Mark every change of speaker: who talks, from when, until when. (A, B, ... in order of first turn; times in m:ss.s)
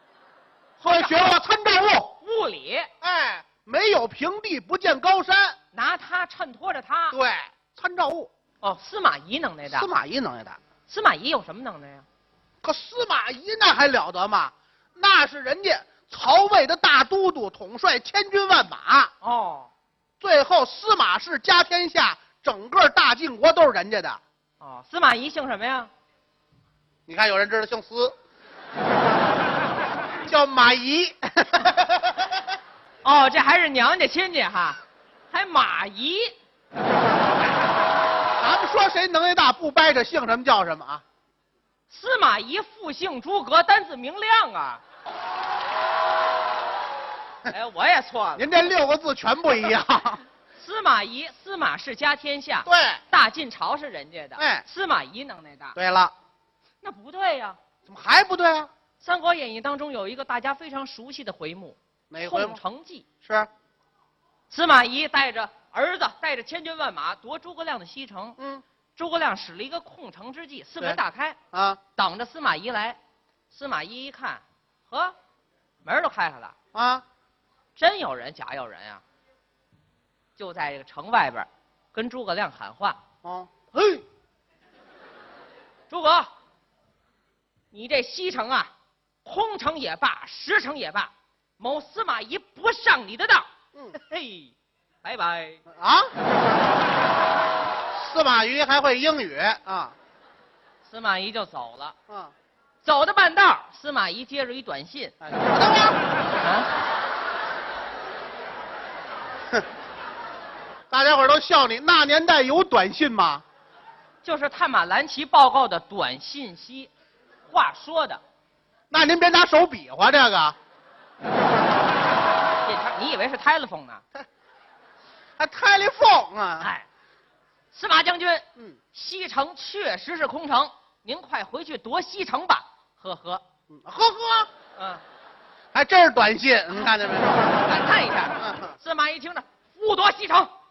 0:00.8-0:01.2 A
0:00.8-0:02.1 B
0:02.2-0:02.9 A
0:03.0-0:05.6 B
0:05.7-0:07.2 A
0:07.1-0:08.3 B
0:08.6-0:09.9 A
0:09.7-0:10.6 B
0:10.9-0:12.0 A
0:12.6-0:19.1 B
0:19.2-0:19.7 A
0:20.2-0:24.2 B
0:24.6-0:25.9 A
0:27.1-0:28.2 B
0:30.3-0:32.0 B
0:33.0-0:34.8 A
0:35.3-0:36.3 A
0:38.4-0:41.0 B
0:41.9-0:44.8 A
0:47.5-0:48.5 A
0:48.4-0:50.2 B
0:50.6-0:55.8 A
0:52.7-0:53.0 B
0:54.4-0:54.6 B
0:55.8-0:56.1 B
0:56.8-0:57.6 A
0:57.9-0:58.7 B
0:59.0-1:03.1 A
1:02.1-1:02.6 B
1:03.2-1:03.5 B
1:04.5-1:08.4 A
1:08.4-1:08.6 B
1:09.0-1:11.4 A
1:11.5-1:11.8 B
1:12.0-1:13.0 A
1:13.5-1:15.2 A
1:15.8-1:16.6 A
1:16.7-1:17.0 B
1:17.8-1:19.0 A
1:20.4-1:23.0 A
1:23.2-1:23.6 B
1:23.8-1:24.0 A
1:25.9-1:26.3 A
1:27.7-1:28.7 A
1:29.2-1:34.5 A
1:35.0-1:35.6 A
1:35.7-1:36.1 B
1:37.9-1:40.0 B
1:40.8-1:42.0 A
1:42.1-1:42.3 B
1:42.8-1:45.1 A
1:45.2-1:46.0 B
1:46.4-1:46.7 A
1:50.9-1:53.4 B
1:54.2-1:56.9 A
1:57.5-1:58.2 A
1:58.9-2:00.6 B
2:02.6-2:04.0 A
2:05.4-2:06.7 B
2:07.7-2:13.4 A
2:13.7-2:14.5 B
2:14.8-2:15.0 A
2:15.7-2:17.5 B
2:16.7-2:20.5 A
2:18.4-2:18.8 B